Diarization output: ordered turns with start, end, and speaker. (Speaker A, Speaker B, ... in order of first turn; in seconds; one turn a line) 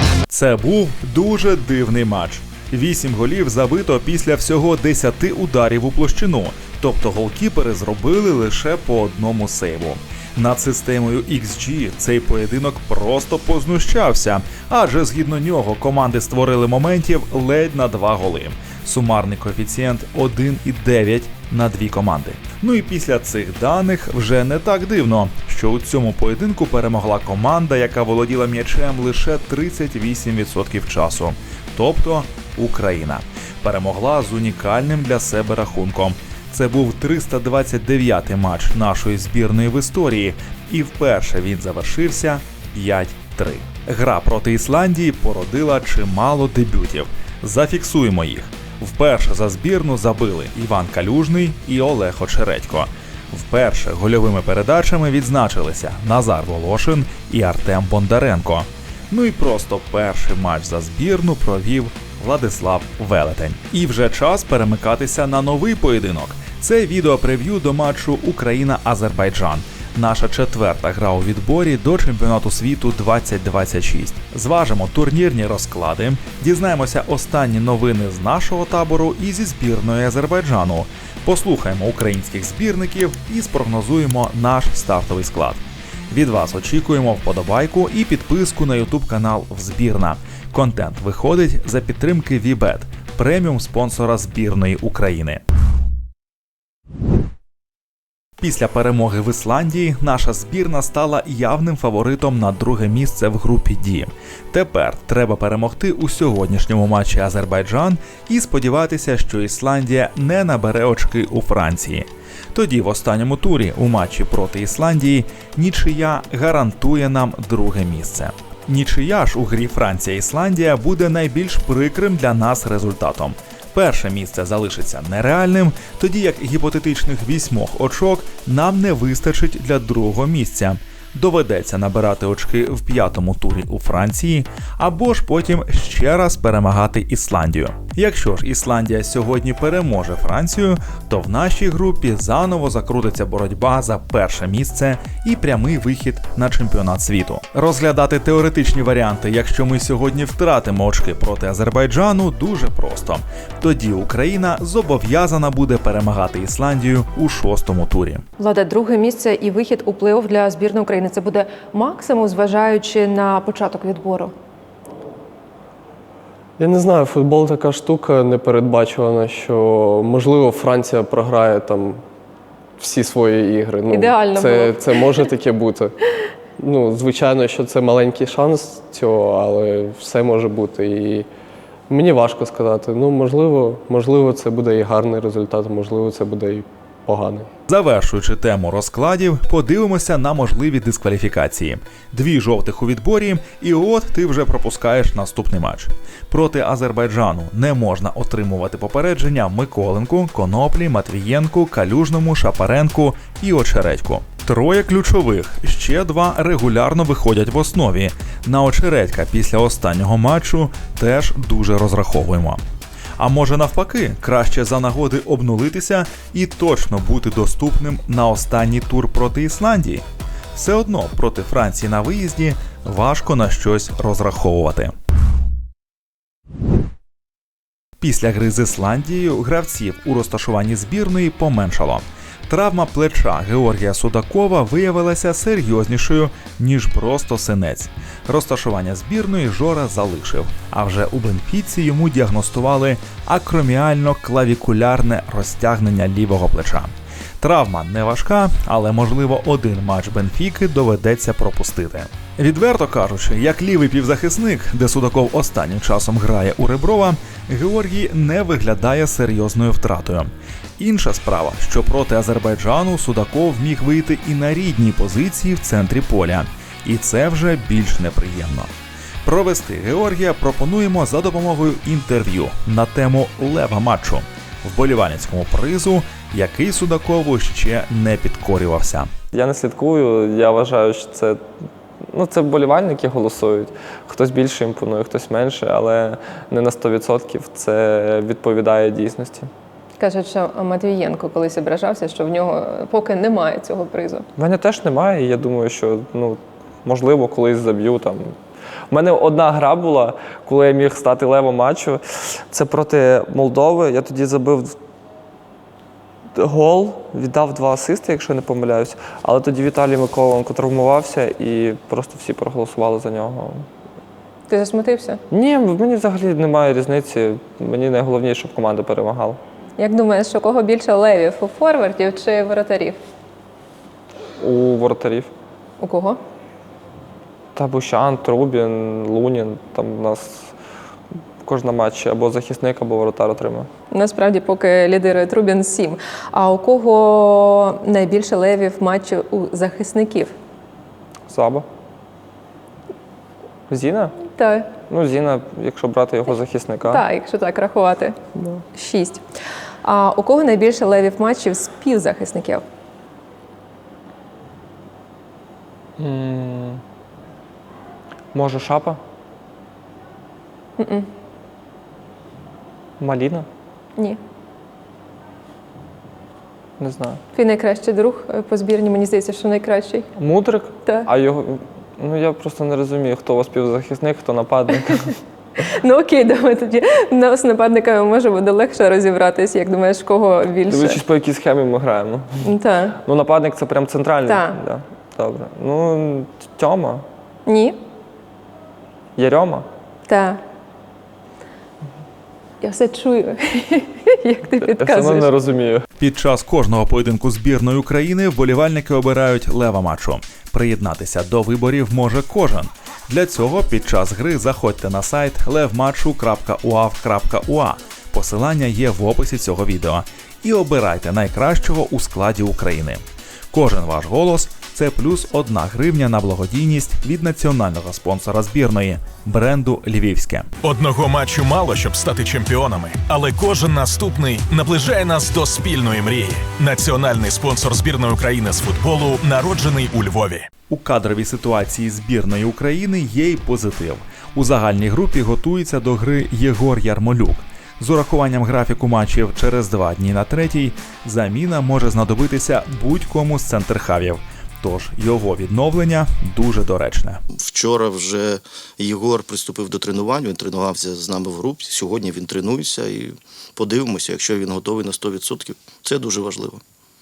Speaker A: 0.3-95.4
Speaker A: 98.4-158.2
Speaker B: 158.4-164.3
Speaker C: 166.6-172.0
Speaker C: 172.8-175.9
Speaker B: 173.9-175.3
Speaker C: 176.6-181.3
Speaker C: 181.9-187.5
Speaker A: 187.7-212.6
Speaker A: 213.2-220.0
Speaker A: 220.6-224.9
Speaker A: 228.0-268.7
Speaker A: 269.2-279.1
Speaker D: 279.3-281.4
Speaker D: 282.1-289.5
Speaker B: 290.0-294.3
Speaker D: 294.4-298.4
Speaker D: 298.9-304.8
Speaker D: 306.4-313.7
Speaker B: 314.5-315.2
Speaker D: 315.3-319.4
Speaker B: 319.8-323.0
Speaker D: 324.4-325.3
Speaker B: 325.8-326.2
Speaker D: 327.6-330.5
Speaker D: 331.4-333.7
Speaker B: 333.9-340.4
Speaker D: 341.3-341.6
Speaker D: 343.7-344.1
Speaker B: 344.3-344.7
Speaker D: 344.9-347.0
Speaker B: 346.9-348.2
Speaker B: 348.7-349.2
Speaker B: 349.8-352.6
Speaker D: 356.0-356.8
Speaker D: 358.3-359.0
Speaker B: 360.8-361.1
Speaker D: 363.0-363.5
Speaker D: 366.8-367.2
Speaker B: 367.3-370.1
Speaker D: 370.2-375.1
Speaker B: 375.6-381.0
Speaker D: 380.7-382.4
Speaker B: 382.4-383.0
Speaker D: 383.1-387.1
Speaker B: 384.3-384.6
Speaker B: 387.5-387.8
Speaker D: 389.2-389.7
Speaker B: 390.1-390.4
Speaker B: 392.6-395.3
Speaker D: 394.7-395.9
Speaker A: 396.0-420.5
Speaker E: 420.6-430.5
Speaker A: 430.7-447.2
Speaker F: 447.3-456.6